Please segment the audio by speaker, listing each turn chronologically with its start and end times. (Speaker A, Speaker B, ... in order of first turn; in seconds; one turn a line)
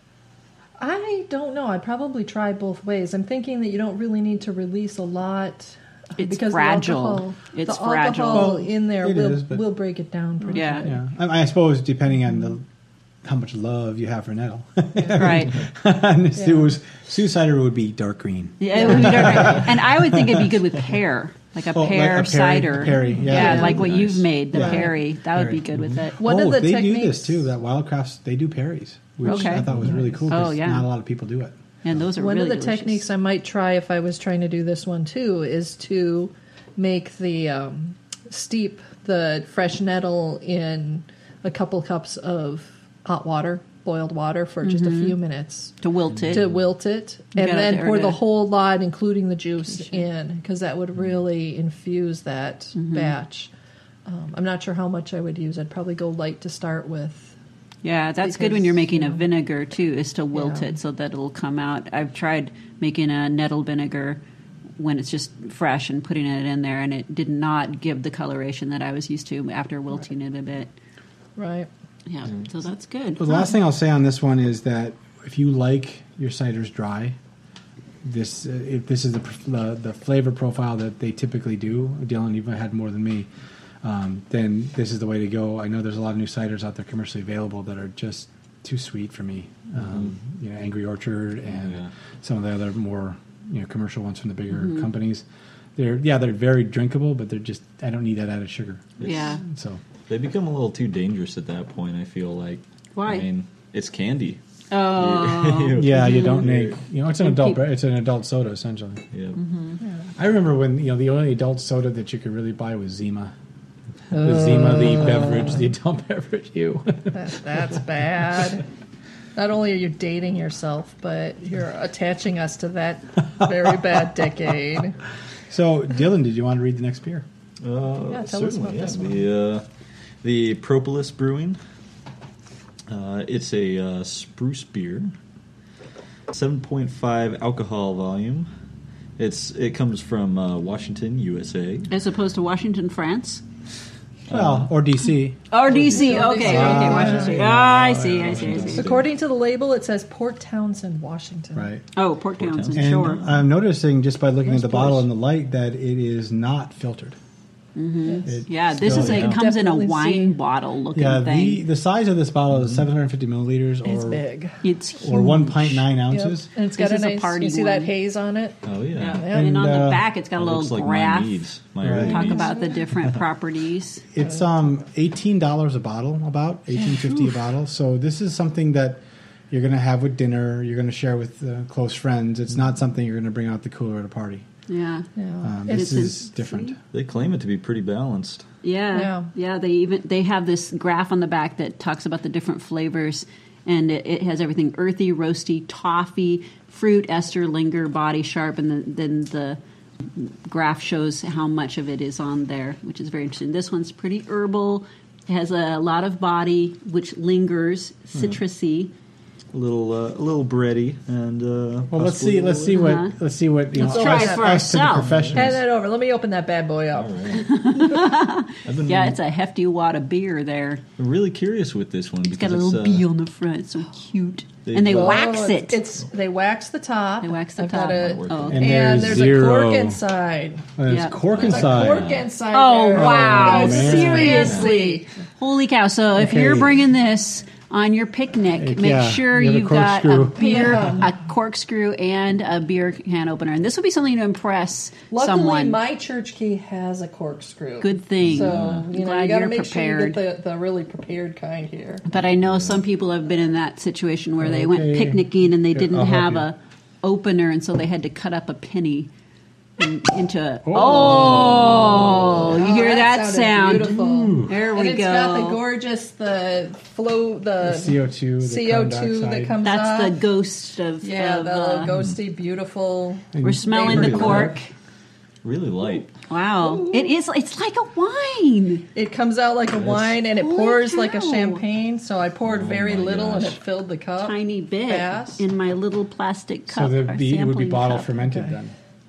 Speaker A: 0.8-11.0
Speaker B: 6.2-8.6
Speaker C: 8.3-9.6
Speaker B: 10.5-10.9
Speaker C: 10.8-12.6
Speaker C: 13.2-20.5
Speaker B: 15.2-15.6
Speaker A: 16.4-16.7
Speaker B: 18.6-26.2
Speaker A: 18.7-19.6
Speaker C: 21.7-31.5
Speaker D: 23.1-24.2
Speaker A: 23.3-23.8
Speaker A: 24.5-24.9
Speaker D: 25.7-26.0
Speaker A: 26.2-27.4
Speaker B: 29.2-29.7
Speaker A: 29.2-30.2
Speaker B: 30.3-30.9
Speaker B: 31.8-33.0
Speaker A: 32.2-45.7
Speaker B: 44.6-45.1
Speaker B: 45.8-46.5
Speaker D: 46.1-46.4
Speaker A: 46.3-53.5
Speaker B: 47.4-48.2
Speaker B: 52.8-53.1
Speaker A: 54.0-57.4
Speaker B: 57.8-64.2
Speaker A: 58.2-59.2
Speaker A: 60.3-60.7
Speaker B: 64.8-70.7
Speaker A: 71.4-71.7
Speaker B: 72.0-73.5
Speaker C: 73.2-77.2
Speaker C: 78.0-83.3
Speaker C: 83.8-95.2
Speaker D: 89.8-90.1
Speaker D: 91.5-91.9
Speaker B: 94.5-94.9
Speaker C: 95.8-99.8
Speaker D: 99.0-99.4
Speaker B: 99.0-99.4
Speaker D: 100.1-106.8
Speaker B: 103.0-103.3
Speaker B: 104.7-106.4
Speaker C: 105.7-109.0
Speaker B: 107.2-107.6
Speaker D: 109.1-109.4
Speaker B: 109.3-109.8
Speaker C: 110.2-113.3
Speaker C: 114.1-117.2
Speaker A: 117.1-118.7
Speaker A: 119.3-125.0
Speaker C: 125.5-127.2
Speaker D: 127.6-129.6
Speaker A: 128.1-129.3
Speaker D: 130.2-131.6
Speaker D: 132.9-135.1
Speaker D: 136.3-138.5
Speaker D: 139.2-141.9
Speaker B: 141.9-143.4
Speaker D: 144.3-144.7
Speaker C: 144.3-145.4
Speaker B: 145.5-148.9
Speaker D: 145.7-149.1
Speaker A: 145.7-147.5
Speaker C: 146.4-148.8
Speaker A: 148.7-151.7
Speaker C: 151.5-151.8
Speaker B: 151.9-153.2
Speaker D: 152.4-153.3
Speaker C: 152.7-157.2
Speaker B: 157.7-161.6
Speaker A: 158.0-158.3
Speaker C: 158.2-159.2
Speaker D: 158.8-159.4
Speaker A: 158.9-160.4
Speaker C: 160.9-164.2
Speaker D: 162.5-162.8
Speaker A: 163.8-164.6
Speaker B: 164.6-165.8
Speaker C: 165.0-166.5
Speaker A: 165.9-169.6
Speaker B: 166.8-167.9
Speaker D: 168.6-169.2
Speaker B: 168.9-171.4
Speaker C: 169.3-170.0
Speaker D: 170.3-173.2
Speaker C: 171.8-172.3
Speaker B: 172.0-174.0
Speaker A: 172.1-172.8
Speaker C: 174.1-184.4
Speaker A: 176.8-177.2
Speaker B: 184.7-185.1
Speaker A: 185.2-186.1
Speaker C: 185.4-186.8
Speaker B: 185.7-186.7
Speaker D: 186.9-188.4
Speaker B: 188.6-208.9
Speaker A: 188.9-189.3
Speaker D: 209.5-212.8
Speaker C: 211.9-215.6
Speaker B: 212.7-213.1
Speaker B: 213.7-215.1
Speaker A: 213.7-214.7
Speaker D: 215.0-215.5
Speaker A: 215.3-217.4
Speaker D: 216.9-217.5
Speaker B: 217.4-220.8
Speaker D: 218.6-219.2
Speaker D: 221.0-223.1
Speaker B: 222.2-225.8
Speaker D: 224.6-225.3
Speaker A: 224.8-230.7
Speaker B: 227.2-228.8
Speaker D: 228.0-229.2
Speaker C: 228.5-230.0
Speaker C: 230.8-232.1
Speaker B: 230.9-231.2
Speaker D: 231.3-232.3
Speaker A: 231.3-235.1
Speaker B: 232.5-245.8
Speaker C: 232.9-234.6
Speaker D: 234.3-234.7
Speaker C: 236.1-236.7
Speaker C: 238.6-240.9
Speaker A: 240.3-241.1
Speaker A: 245.1-252.0
Speaker B: 247.8-250.2
Speaker D: 248.2-248.9
Speaker B: 252.0-259.1
Speaker D: 252.4-252.8
Speaker C: 254.4-256.4
Speaker B: 259.8-265.6
Speaker C: 260.6-262.3
Speaker D: 260.9-262.5
Speaker A: 262.3-270.2
Speaker C: 264.1-264.5
Speaker C: 267.6-269.5
Speaker B: 269.6-271.9
Speaker A: 271.0-274.5
Speaker D: 271.9-272.1
Speaker C: 273.3-274.6
Speaker B: 273.4-274.7
Speaker D: 273.8-274.5
Speaker D: 275.4-276.1
Speaker B: 276.2-278.9
Speaker A: 276.6-277.1
Speaker A: 278.9-285.4
Speaker D: 279.8-280.1
Speaker B: 280.3-281.6
Speaker D: 282.4-283.6
Speaker B: 284.2-288.1
Speaker C: 286.7-288.7